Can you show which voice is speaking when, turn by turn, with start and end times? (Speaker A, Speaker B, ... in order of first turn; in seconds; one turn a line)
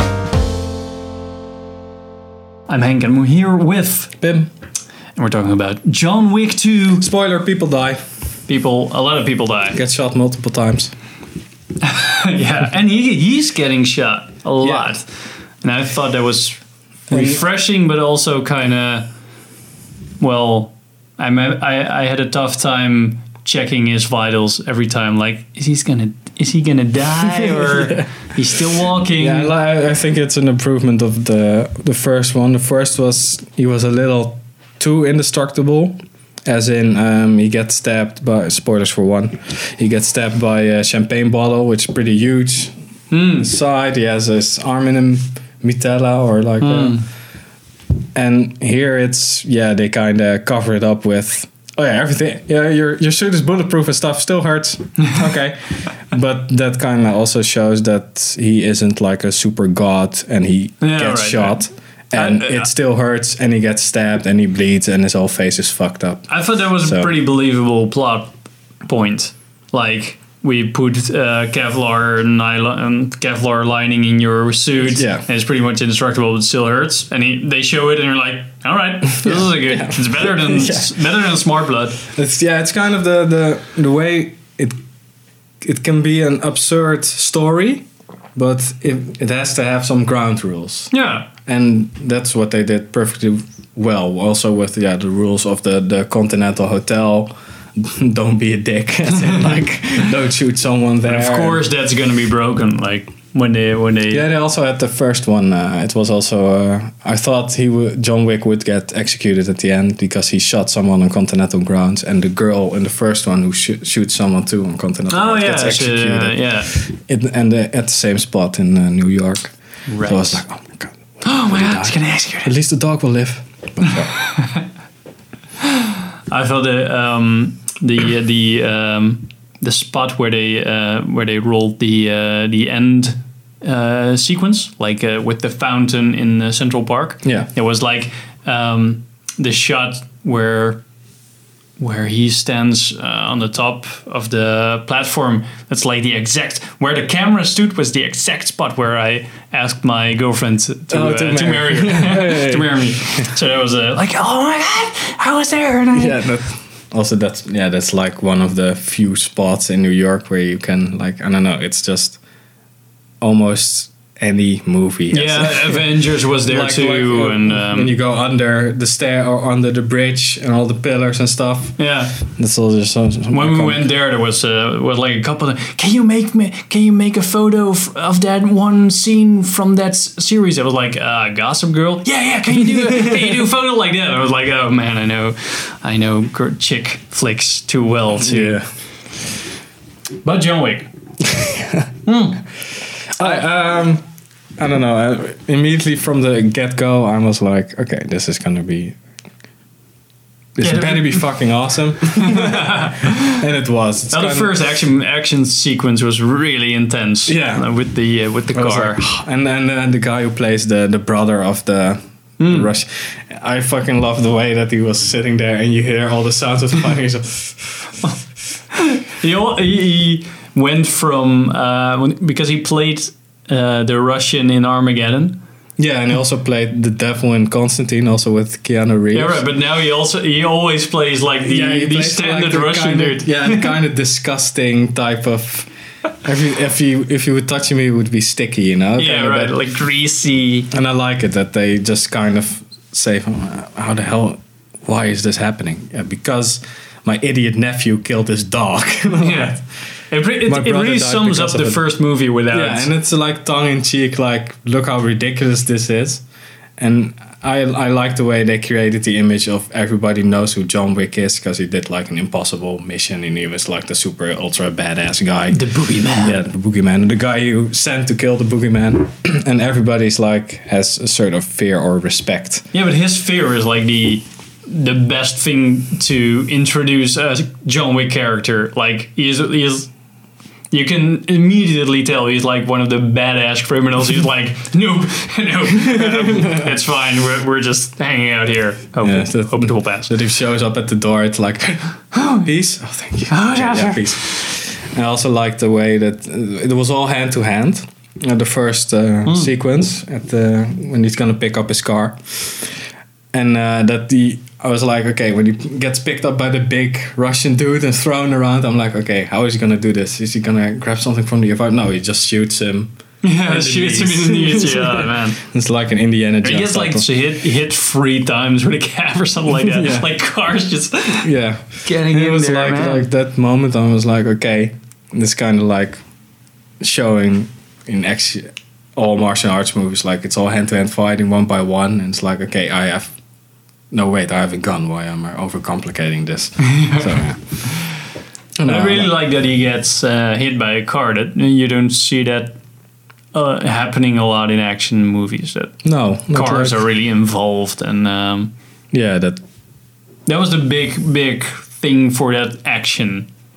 Speaker A: 2.7-4.2
Speaker B: 4.2-4.5
Speaker A: 5.2-7.1
Speaker B: 7.0-8.0
Speaker A: 8.5-9.8
Speaker B: 9.7-10.9
Speaker A: 11.8-19.1
Speaker B: 14.6-14.9
Speaker B: 17.1-17.4
Speaker A: 20.2-29.5
Speaker B: 27.2-28.1
Speaker B: 29.2-36.0
Speaker B: 36.5-42.8
Speaker A: 43.1-43.5
Speaker B: 43.4-47.1
Speaker A: 46.6-47.0
Speaker B: 48.1-67.1
Speaker A: 60.8-62.7
Speaker A: 66.3-68.3
Speaker A: 68.8-82.0
Speaker B: 74.8-75.3
Speaker B: 79.2-81.0
Speaker B: 82.0-84.8
Speaker B: 85.6-90.9
Speaker A: 90.9-91.3
Speaker B: 91.5-101.6
Speaker A: 101.1-104.2
Speaker B: 104.1-124.2
Speaker A: 115.1-116.7
Speaker A: 119.9-120.4
Speaker A: 121.2-122.5
Speaker A: 124.3-124.6
Speaker A: 126.3-140.8
Speaker B: 137.2-137.5
Speaker A: 141.8-156.3
Speaker B: 150.9-153.3
Speaker B: 155.9-162.2
Speaker B: 163.2-173.9
Speaker A: 165.1-167.9
Speaker A: 171.8-172.2
Speaker A: 173.3-188.6
Speaker B: 182.8-183.2
Speaker B: 188.2-188.7
Speaker A: 190.2-190.9
Speaker B: 191.3-191.9
Speaker A: 192.1-192.5
Speaker B: 193.2-194.0
Speaker B: 194.6-199.0
Speaker B: 200.6-204.6
Speaker A: 200.6-201.3
Speaker A: 202.2-203.4
Speaker A: 204.1-209.0
Speaker B: 207.3-207.8
Speaker B: 208.5-218.0
Speaker A: 212.4-212.7
Speaker A: 218.7-225.4
Speaker B: 225.8-229.4
Speaker A: 229.1-233.7
Speaker B: 231.4-235.7
Speaker B: 236.2-239.6
Speaker A: 239.0-240.7
Speaker B: 240.7-249.6
Speaker A: 249.2-252.9
Speaker B: 250.4-251.9
Speaker B: 252.5-256.2
Speaker B: 256.8-272.7
Speaker A: 265.5-266.4
Speaker A: 272.7-279.9
Speaker A: 280.7-290.1
Speaker B: 286.0-286.7
Speaker B: 289.0-317.1
Speaker A: 292.2-292.4
Speaker A: 293.3-294.5
Speaker A: 313.2-315.4
Speaker A: 316.4-321.3
Speaker B: 319.5-320.1
Speaker B: 321.2-326.0
Speaker A: 321.8-323.1
Speaker B: 326.8-333.2
Speaker B: 333.9-337.9
Speaker B: 338.6-339.1
Speaker A: 338.6-342.6
Speaker A: 343.3-348.5
Speaker B: 345.8-346.8
Speaker B: 348.9-349.4
Speaker A: 350.3-353.3